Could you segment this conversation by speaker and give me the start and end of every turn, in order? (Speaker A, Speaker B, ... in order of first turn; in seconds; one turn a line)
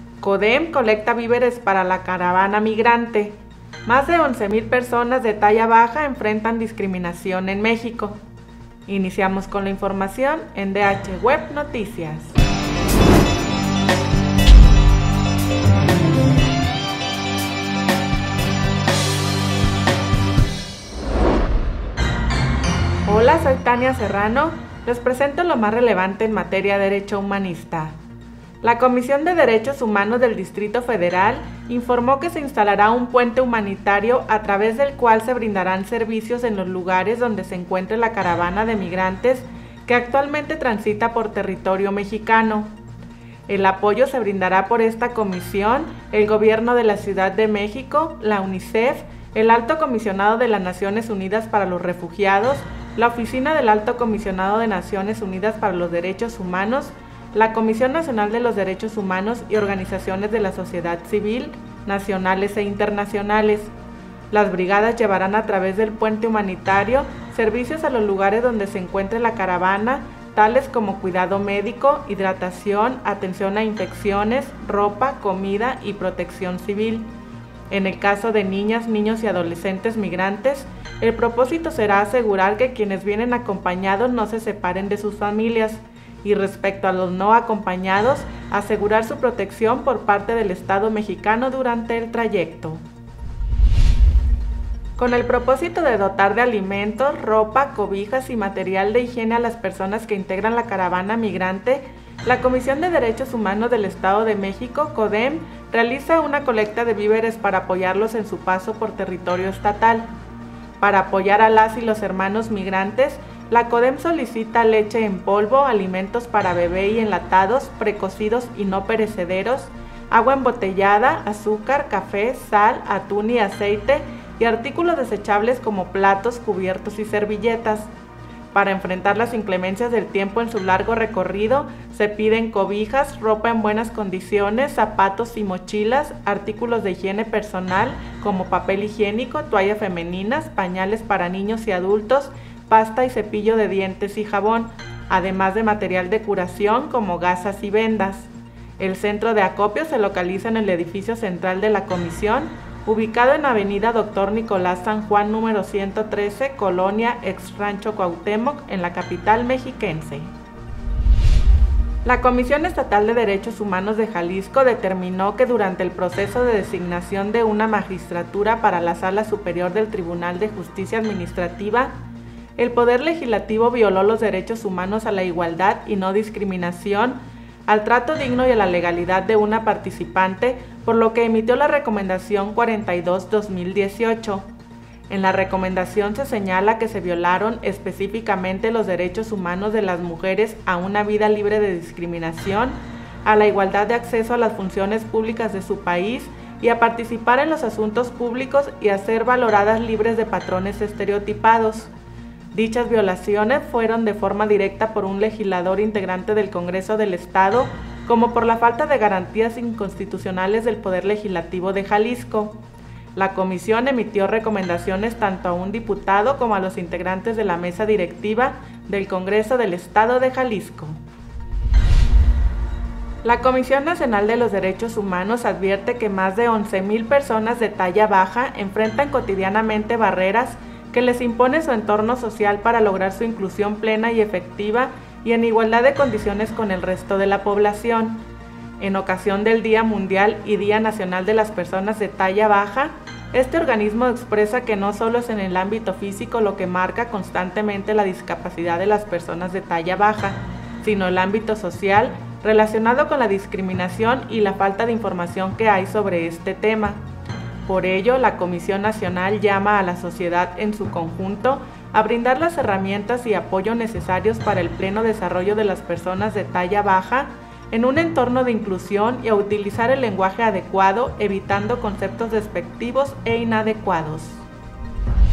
Speaker A: 0.2-8.2
Speaker A: 8.9-12.4
Speaker A: 23.1-28.0
Speaker A: 28.6-42.7
Speaker A: 43.5-63.7
Speaker A: 64.3-77.1
Speaker A: 77.7-92.8
Speaker A: 95.0-110.1
Speaker A: 110.8-127.9
Speaker A: 128.5-160.3
Speaker A: 162.0-171.9
Speaker A: 172.6-184.5
Speaker A: 185.1-201.9
Speaker A: 202.5-212.6
Speaker A: 213.1-221.0
Speaker A: 223.2-238.2
Speaker A: 238.8-257.0
Speaker A: 257.6-274.4